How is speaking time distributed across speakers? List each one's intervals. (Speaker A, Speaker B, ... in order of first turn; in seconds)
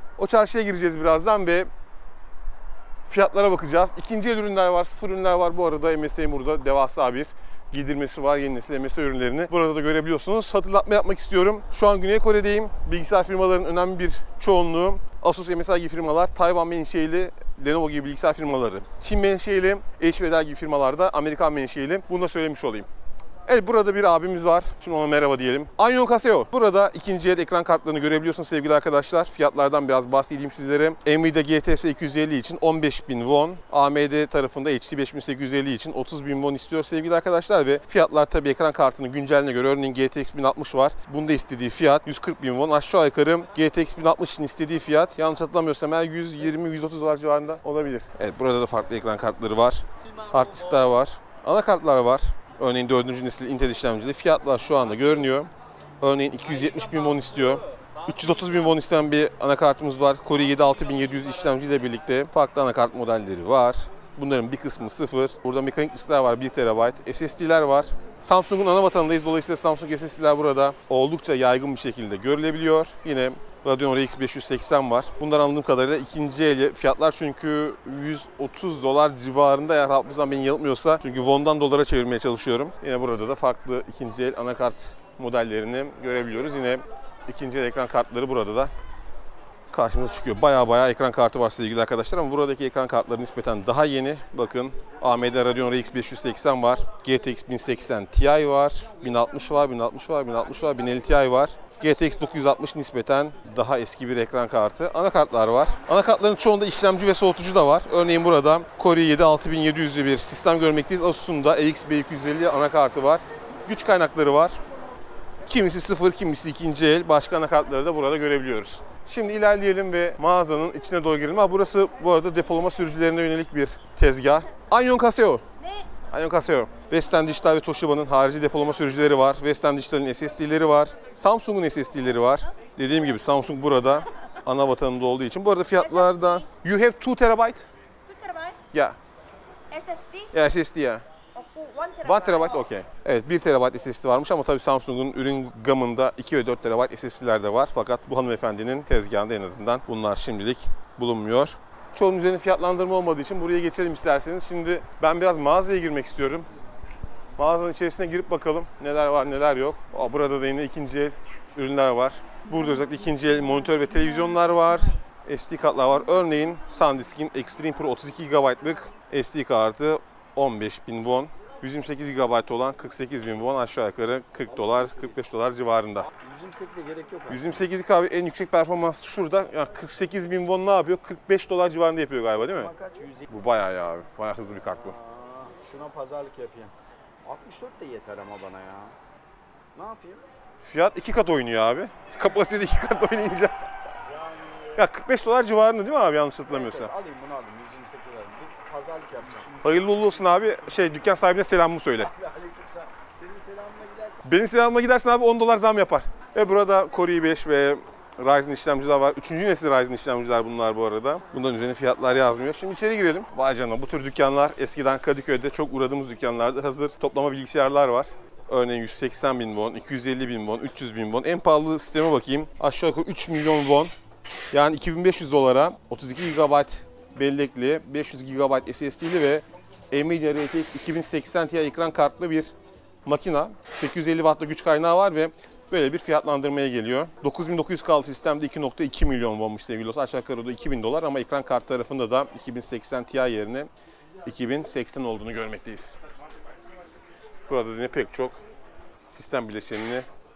Speaker A: 0.2-1.7, 3.1-22.9, 23.5-88.7, 89.7-114.6, 115.5-125.5, 126.1-137.7, 138.7-139.0, 140.3-141.1, 142.0-156.5, 157.4-176.1, 177.3-182.7, 183.3-185.0, 190.6-193.7, 194.8-196.9, 199.6-202.2, 204.2-223.9, 224.5-232.5, 233.1-243.7, 244.2-246.0, 247.5-248.4, 249.1-250.1
Speaker B: 125.6-125.9, 138.1-138.6, 139.7-140.3, 141.3-142.4
Speaker C: 176.1-177.6, 182.5-183.3, 184.8-189.0, 189.7-190.2, 194.1-194.8, 196.5-199.6, 202.1-204.2